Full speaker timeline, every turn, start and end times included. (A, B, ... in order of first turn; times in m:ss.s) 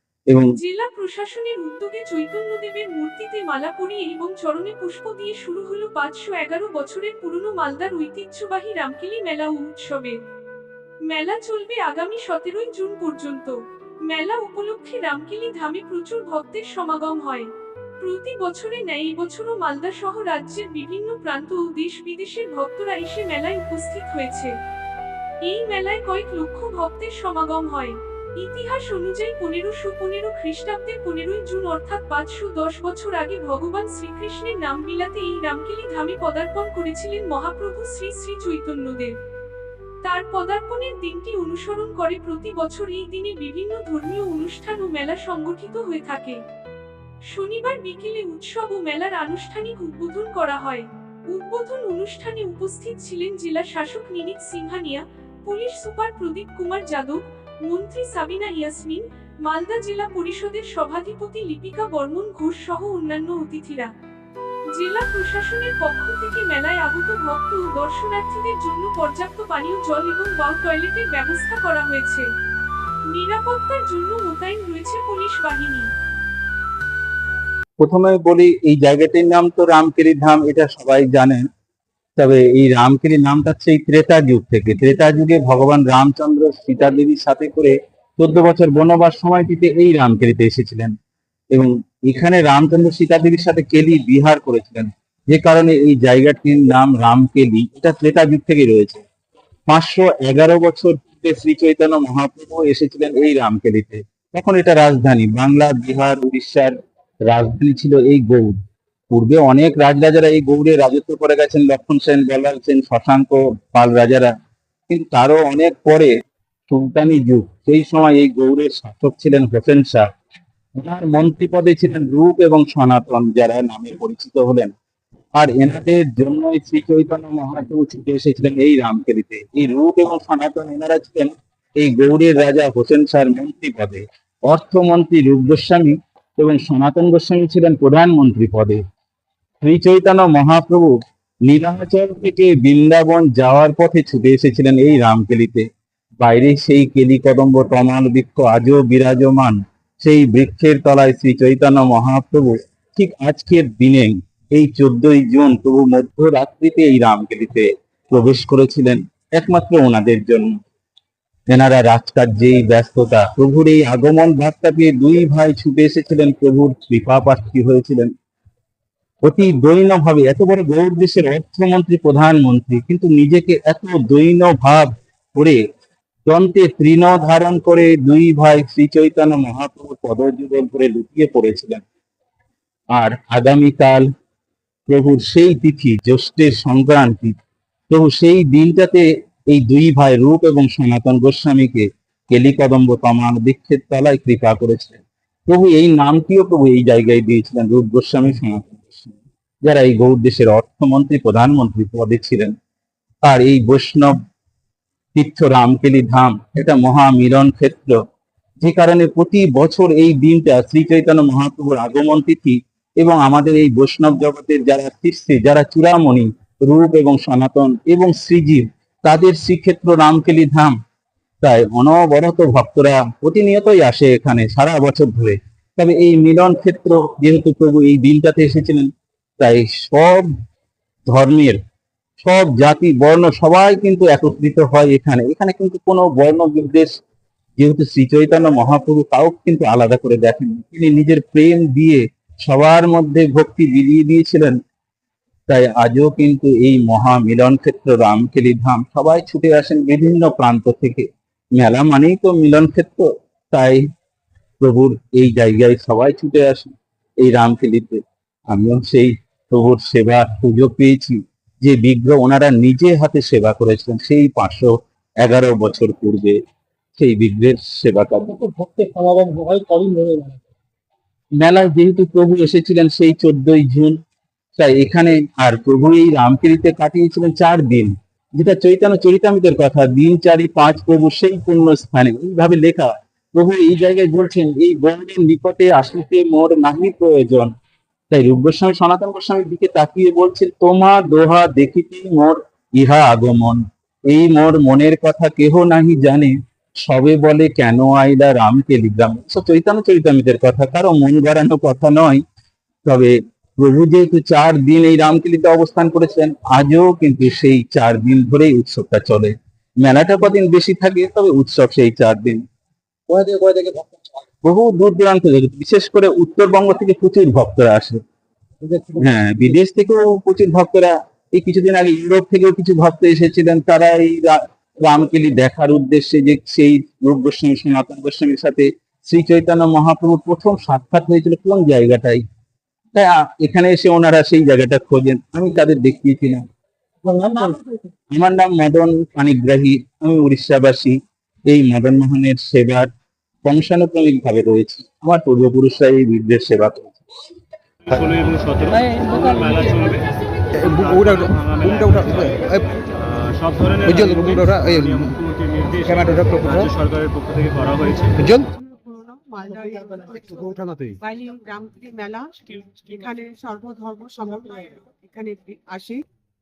0:00.6-0:10.2 A
0:11.1-0:13.5 A
0:14.1-0:17.5 A
0:18.0-0:24.5 A
0:25.4-0:39.1 A
0:40.0-0:46.4 A
0:47.3-1:03.9 A
1:04.7-1:12.3 A
1:13.1-1:15.9 A
1:17.8-1:21.4 B
1:22.2-1:30.9 B
1:31.5-1:39.0 B
1:39.7-1:46.8 B
1:47.3-1:48.6 B
1:49.1-1:54.3 B
1:54.9-1:56.1 B
1:56.7-2:00.1 B
2:00.8-2:04.7 B
2:05.4-2:18.8 B
2:19.6-2:20.9 B
2:21.4-2:25.7 B
2:26.2-2:40.6 B
2:41.5-2:48.1 B
2:49.2-2:55.6 B
2:56.3-3:01.8 B
3:02.9-3:04.1 B
3:04.9-3:07.3 B
3:07.9-3:22.5 B
3:23.2-3:24.1 B
3:25.1-3:28.0 B
3:28.6-3:40.8 B
3:41.4-3:50.3 B
3:51.1-3:51.6 B
3:52.2-3:56.9 B
3:57.6-4:04.6 B
4:05.5-4:13.8 B
4:14.6-4:26.4 B
4:27.0-4:28.4 B
4:28.3-4:30.4 C
4:31.4-4:34.0 B
4:34.6-4:47.5 B
4:48.1-5:02.2 B
5:02.8-5:12.4 B
5:13.1-5:14.0 C
5:14.4-5:18.0 B
5:18.6-5:19.4 C
5:19.0-5:32.2 B
5:32.9-5:36.4 B
5:37.0-5:37.7 C
5:38.1-5:42.9 B
5:43.4-5:47.0 B
5:47.9-5:50.1 D
5:48.8-5:49.7 C
5:50.6-5:52.7 C
5:50.6-5:58.2 D
5:53.9-5:55.1 C
5:55.9-5:56.7 C
5:58.2-5:58.4 C
5:58.4-6:06.0 E
6:00.6-6:00.9 C